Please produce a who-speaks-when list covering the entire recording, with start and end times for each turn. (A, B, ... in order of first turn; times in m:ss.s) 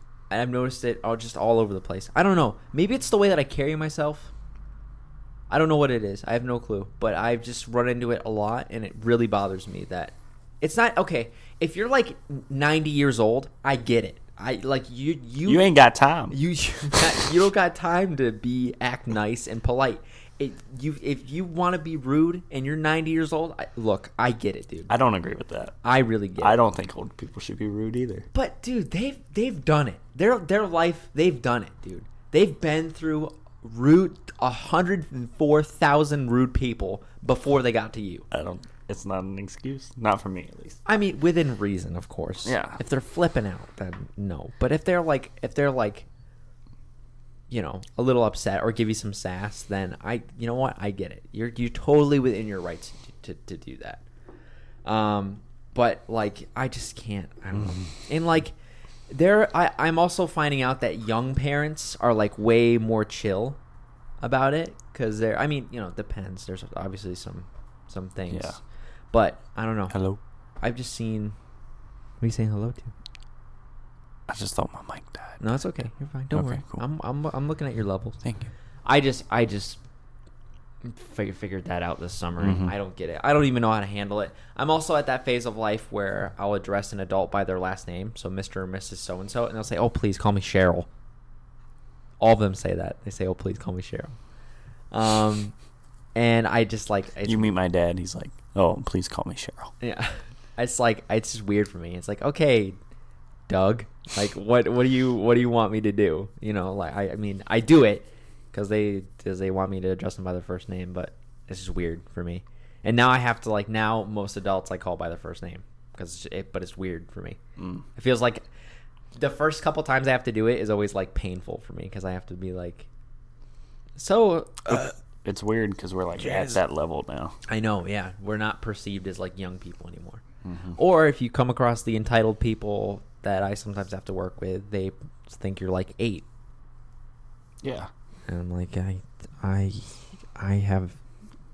0:00.3-0:04.3 A
0:05.5-0:15.7 A
0:15.4-0:16.4 B
0:16.3-0:24.9 A
0:24.9-0:25.8 B
0:25.8-0:26.6 A
0:26.4-0:28.3 B
0:28.3-0:38.3 A
0:38.3-0:40.8 B
0:40.8-0:46.1 A
0:42.4-0:42.8 B
0:47.5-0:54.0 A
0:54.8-0:58.5 A
0:57.6-0:57.9 B
0:59.1-1:03.6 A
1:04.2-1:08.6 A
1:08.3-1:08.6 B
1:09.1-1:10.0 A
1:09.9-1:10.2 B
1:10.6-1:11.4 A
1:12.2-1:12.9 A
1:14.3-1:15.4 B
1:15.4-1:18.2 A
1:16.3-1:16.8 B
1:18.2-1:18.5 B
1:18.8-1:19.8 A
1:20.8-1:30.9 A
1:22.4-1:22.7 B
1:32.2-1:34.1 A
1:34.9-1:35.5 A
1:36.1-1:37.5 A
1:37.2-1:39.7 B
1:39.8-1:42.8 A
1:43.5-1:57.4 A
1:57.6-1:57.8 B
1:57.9-1:58.4 A
1:59.1-2:02.9 A
2:04.0-2:04.9 A
2:04.7-2:07.3 B
2:06.2-2:06.6 A
2:07.5-2:10.2 A
2:10.4-2:10.8 B
2:10.8-2:16.2 A
2:17.6-2:17.9 B
2:18.3-2:21.0 A